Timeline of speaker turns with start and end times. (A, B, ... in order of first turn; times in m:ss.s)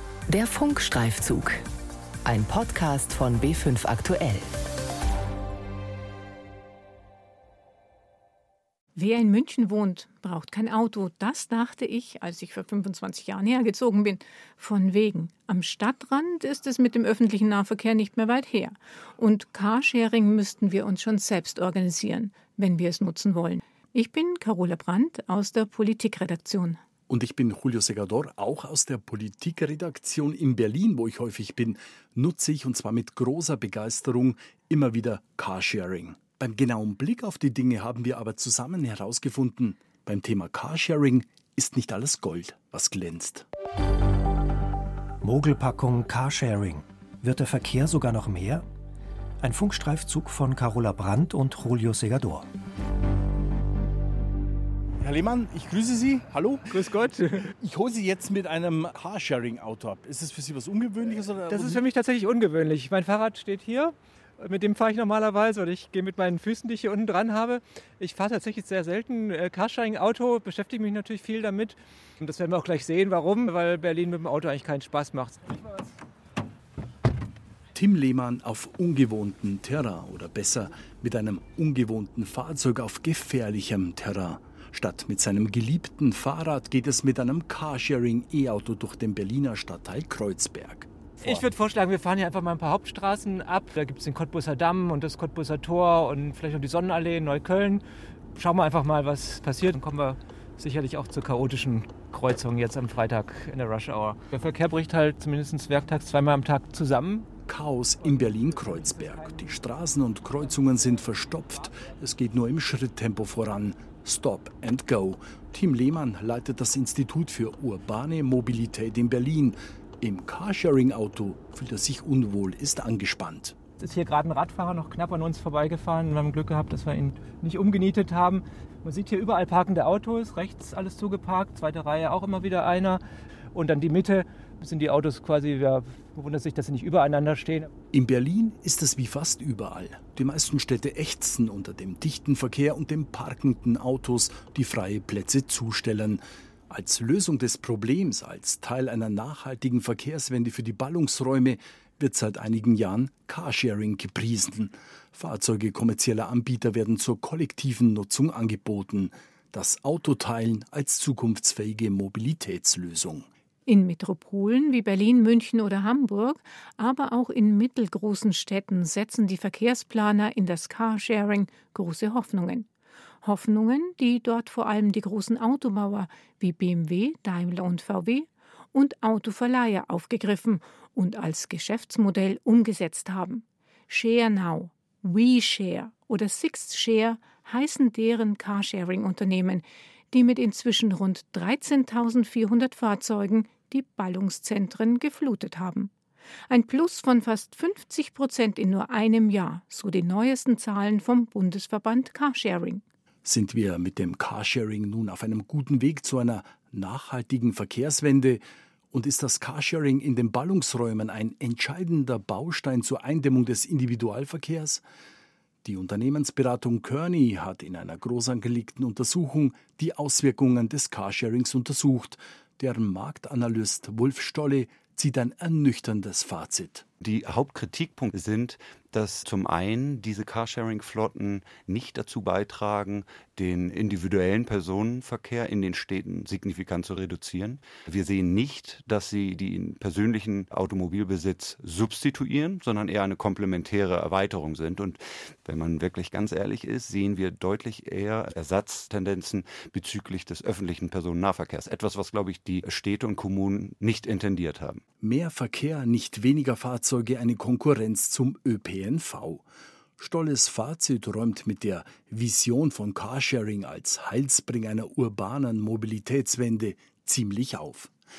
0:00.3-0:01.6 A
0:02.3-0:04.4 A
0:09.0-0:26.8 B
0:27.1-0:43.4 C
0:45.4-0:46.6 D
0:47.4-0:48.6 D
0:49.6-0:52.4 D
0:55.0-1:01.8 C
0:56.8-0:57.4 E
1:01.5-1:15.8 E
1:17.7-1:31.5 C
1:31.2-1:37.8 E
1:38.4-1:47.3 E
1:47.5-2:03.6 C
1:48.2-1:48.8 E
2:03.8-2:13.0 E
2:13.5-2:17.7 E
2:17.9-2:43.3 C
2:43.7-2:52.7 B
2:53.2-3:15.9 B
3:16.5-3:22.8 B
3:23.2-3:34.8 C
3:35.6-3:46.8 C
3:47.0-4:14.8 F
4:15.0-4:19.4 C
4:20.0-4:27.9 C